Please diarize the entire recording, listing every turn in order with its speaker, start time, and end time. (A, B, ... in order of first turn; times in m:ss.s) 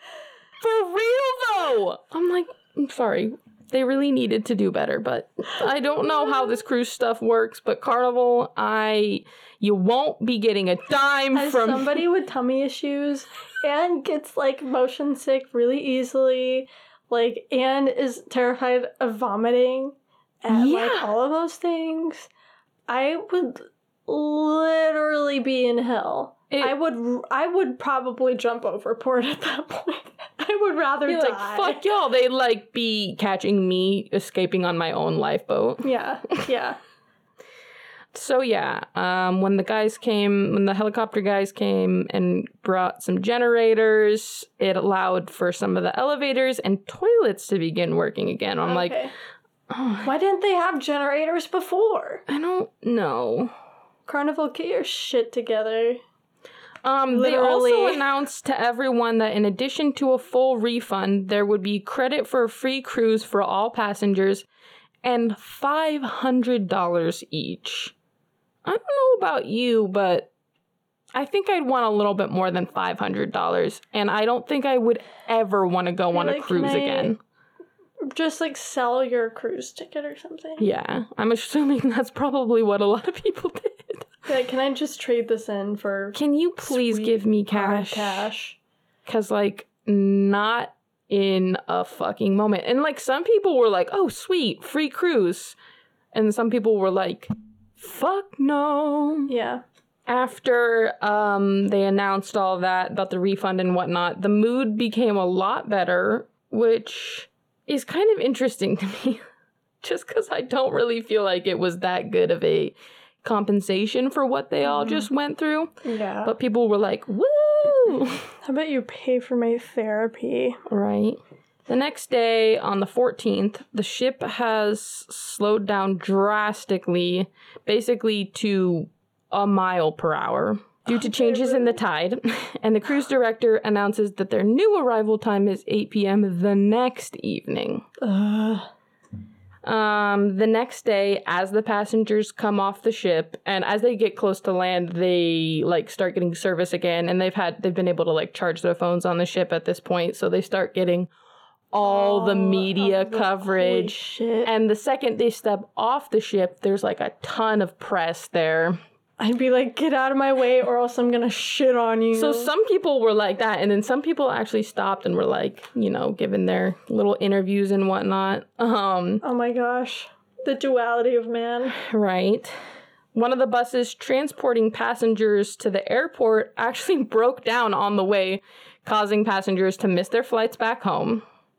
0:00.6-0:12.0 A
0:11.3-0:22.3 B
0:20.5-0:21.1 A
0:22.9-0:31.8 B
0:26.5-0:26.8 A
0:31.1-0:36.5 A
0:35.8-0:36.8 B
0:38.1-0:49.0 A
0:48.6-0:49.1 B
0:49.7-0:50.1 A
0:50.0-0:52.2 B
0:52.3-0:53.5 A
0:54.1-0:56.0 B
0:56.8-1:04.4 A
0:57.1-0:58.0 B
1:05.0-1:08.0 A
1:08.6-1:10.3 A
1:11.2-1:17.2 A
1:16.1-1:17.1 B
1:18.0-1:20.7 B
1:20.6-1:24.1 A
1:24.3-1:28.6 B
1:26.2-1:28.3 A
1:29.1-1:35.6 A
1:36.1-1:39.3 A
1:39.3-1:39.6 B
1:40.1-1:49.2 A
1:49.8-1:55.7 A
1:54.8-1:55.0 B
1:55.8-1:56.3 B
1:56.2-1:58.3 A
1:58.4-2:00.6 B
2:00.7-2:17.9 A
2:10.9-2:11.8 B
2:18.0-2:18.7 B
2:19.6-2:31.1 A
2:31.7-2:38.8 A
2:31.8-2:34.5 B
2:39.2-2:42.5 B
2:42.1-2:49.2 A
2:49.2-2:51.8 B
2:51.8-2:52.6 A
2:53.1-3:01.2 A